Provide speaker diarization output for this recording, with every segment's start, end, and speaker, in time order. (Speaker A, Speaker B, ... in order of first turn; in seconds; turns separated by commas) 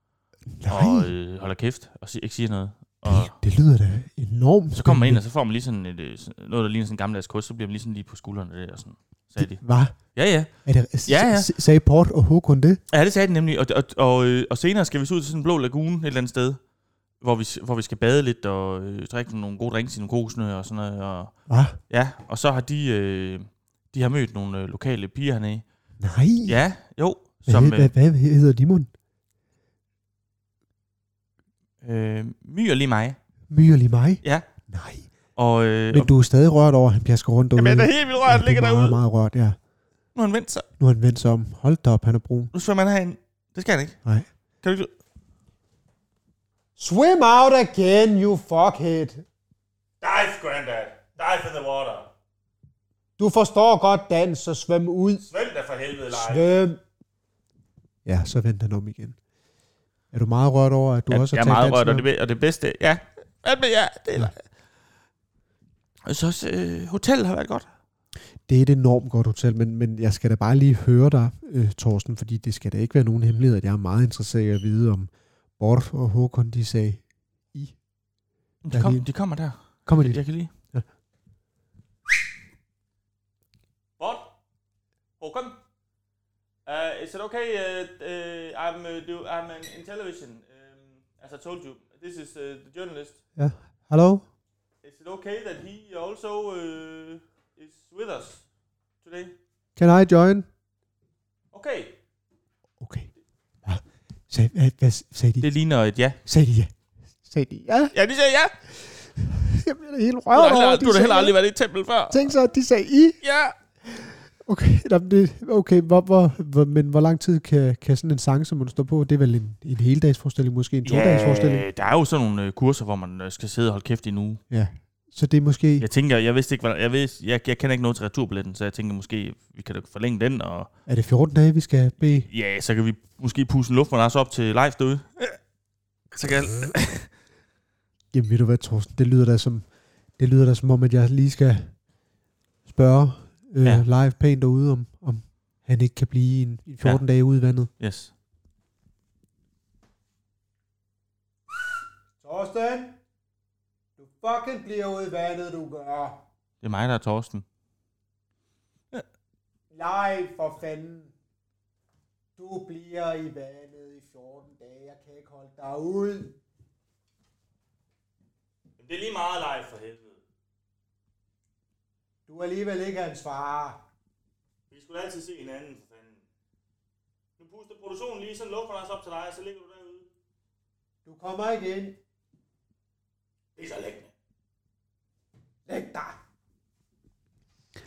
Speaker A: 0.6-1.1, Speaker B: 0.7-3.3, Speaker A: 3.0-5.2, Speaker B: 4.7-11.5, Speaker A: 9.4-12.8, Speaker B: 12.9-16.6, Speaker B: 17.2-25.6, Speaker A: 21.5-21.8, Speaker A: 26.0-26.6, Speaker B: 26.4-27.9, Speaker A: 27.4-28.9, Speaker B: 31.8-33.2, Speaker A: 33.5-35.1, Speaker B: 35.4-36.1, Speaker A: 35.9-39.6, Speaker B: 37.5-39.0, Speaker B: 40.1-40.6, Speaker A: 40.8-42.5, Speaker B: 42.5-44.0, Speaker B: 44.6-44.9, Speaker A: 46.8-49.2, Speaker B: 50.0-52.1, Speaker A: 53.2-55.2, Speaker B: 55.2-56.5, Speaker A: 56.1-56.8, Speaker A: 58.0-59.2, Speaker A: 60.1-62.1, Speaker B: 61.1-64.5, Speaker B: 66.0-67.7, Speaker A: 68.5-77.8, Speaker B: 78.6-80.5, Speaker A: 78.7-79.1, Speaker A: 79.9-80.9, Speaker B: 84.0-84.3, Speaker B: 85.2-85.6, Speaker B: 86.7-93.2, Speaker A: 93.4-94.2, Speaker B: 94.8-98.5, Speaker B: 99.0-99.3, Speaker A: 99.8-100.5, Speaker B: 101.5-102.0, Speaker A: 102.8-103.1, Speaker A: 103.6-105.5, Speaker B: 105.4-106.2, Speaker A: 106.2-107.9, Speaker B: 107.9-108.5, Speaker A: 109.2-111.3, Speaker B: 110.3-112.3, Speaker A: 112.1-113.2, Speaker B: 113.2-113.5, Speaker A: 113.9-121.7, Speaker B: 120.8-124.4, Speaker A: 124.5-125.9, Speaker B: 125.8-130.7, Speaker A: 130.9-132.3, Speaker B: 132.3-135.4, Speaker B: 136.1-137.1, Speaker A: 138.1-141.8, Speaker A: 142.7-147.7, Speaker B: 147.8-148.1, Speaker A: 152.2-152.9, Speaker A: 154.0-156.2, Speaker B: 156.6-157.4, Speaker A: 159.7-161.1, Speaker A: 162.4-166.3, Speaker B: 168.8-170.2, Speaker A: 172.3-173.8, Speaker B: 174.7-176.2, Speaker B: 177.4-180.1, Speaker A: 181.1-181.9, Speaker B: 183.6-184.1, Speaker A: 185.7-186.1